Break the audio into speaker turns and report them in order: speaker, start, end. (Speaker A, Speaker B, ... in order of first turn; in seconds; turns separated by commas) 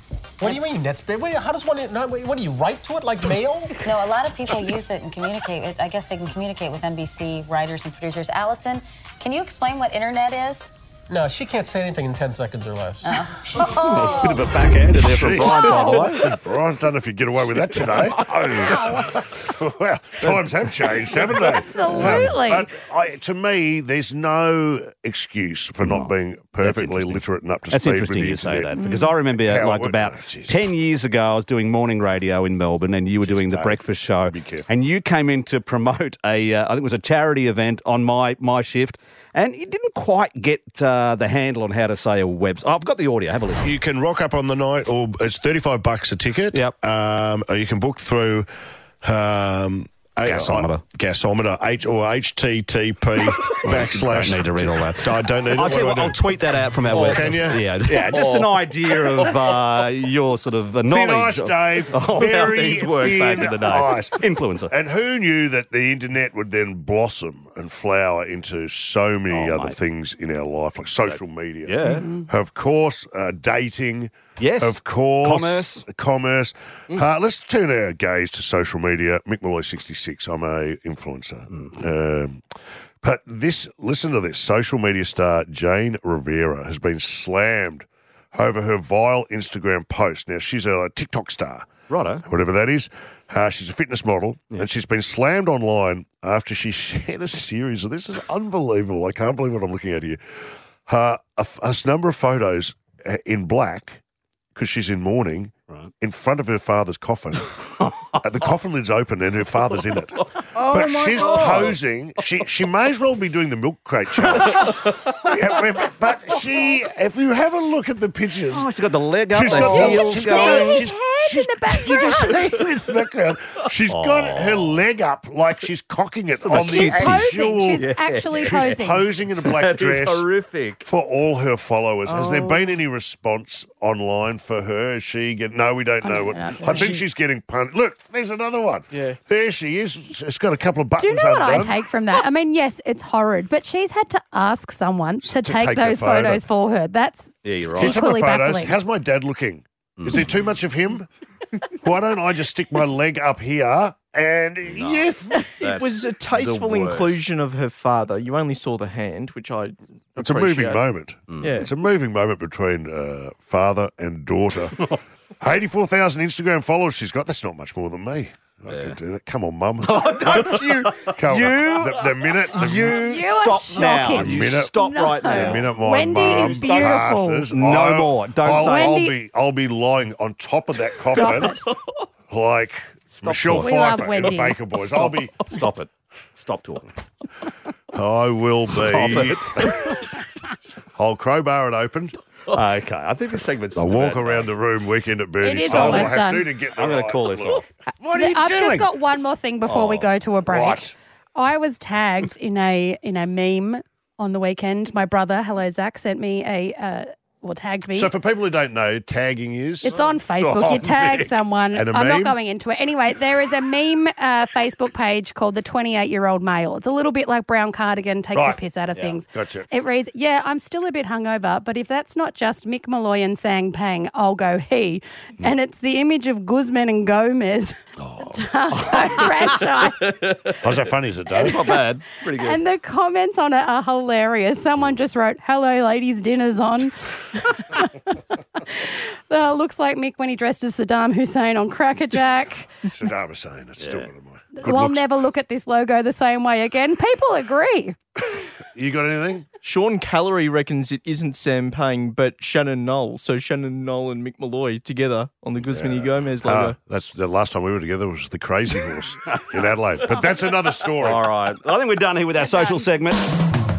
Speaker A: 0.4-3.8, Speaker B: 3.8-10.7, Speaker A: 11.1-13.2, Speaker B: 13.1-14.4, Speaker C: 13.7-16.4, Speaker D: 15.0-28.7, Speaker E: 15.6-16.0, Speaker C: 17.8-18.8, Speaker C: 20.2-20.6, Speaker E: 21.4-22.7, Speaker C: 21.9-22.3, Speaker C: 25.8-43.7, Speaker E: 28.7-29.1, Speaker D: 29.3-30.6, Speaker D: 33.2-34.7, Speaker D: 43.6-48.5, Speaker D: 49.0-56.2, Speaker C: 50.2-50.8, Speaker C: 53.6-64.7, Speaker D: 56.9-58.5, Speaker D: 59.0-59.4, Speaker D: 60.9-82.4, Speaker C: 69.3-69.8, Speaker C: 71.0-72.1, Speaker E: 71.8-72.3, Speaker C: 74.4-75.8, Speaker C: 81.5-81.8, Speaker D: 83.0-91.7, Speaker C: 91.9-92.2, Speaker D: 92.2-104.0, Speaker D: 104.5-107.5, Speaker C: 107.8-108.2, Speaker D: 108.2-118.7, Speaker C: 110.4-111.8, Speaker C: 114.3-115.3, Speaker C: 118.5-120.9, Speaker D: 119.3-127.9, Speaker E: 119.5-122.5, Speaker C: 123.9-124.8, Speaker C: 126.4-130.9, Speaker E: 126.5-129.1, Speaker D: 128.4-130.3, Speaker D: 130.8-141.8, Speaker C: 132.1-132.7, Speaker E: 136.0-137.0, Speaker C: 136.6-137.0, Speaker C: 138.9-139.2, Speaker E: 141.0-148.8, Speaker D: 145.2-146.4, Speaker C: 147.4-148.0, Speaker D: 147.7-151.1, Speaker C: 150.0-150.5, Speaker D: 151.8-155.5, Speaker C: 154.7-157.2, Speaker F: 155.6-160.8, Speaker D: 160.2-164.8, Speaker C: 161.3-161.6, Speaker F: 161.4-161.7, Speaker D: 165.4-173.1, Speaker C: 168.7-169.0, Speaker C: 169.8-179.0, Speaker E: 172.9-177.5, Speaker D: 174.2-181.6, Speaker E: 178.5-179.1, Speaker E: 181.0-181.6, Speaker C: 181.1-181.6, Speaker D: 182.3-185.3, Speaker C: 183.1-184.4, Speaker E: 183.6-184.6, Speaker C: 184.9-186.9, Speaker D: 187.9-190.0, Speaker C: 188.7-190.1, Speaker D: 190.9-192.2, Speaker C: 192.5-194.5, Speaker D: 193.7-198.8, Speaker E: 195.4-196.5, Speaker C: 195.7-198.9, Speaker E: 198.1-208.1, Speaker C: 199.7-200.1, Speaker D: 200.5-200.9, Speaker D: 207.9-212.4, Speaker E: 209.8-230.1, Speaker C: 210.0-210.9, Speaker D: 218.3-219.7, Speaker D: 228.0-229.0, Speaker C: 228.7-230.6, Speaker D: 230.6-231.6, Speaker C: 231.4-232.6, Speaker E: 232.3-238.1, Speaker E: 238.7-242.7, Speaker D: 242.9-245.1, Speaker C: 243.8-244.1, Speaker E: 244.5-248.0, Speaker D: 248.7-249.5, Speaker F: 249.6-256.8, Speaker D: 255.7-261.2, Speaker C: 259.3-260.3, Speaker C: 261.0-263.3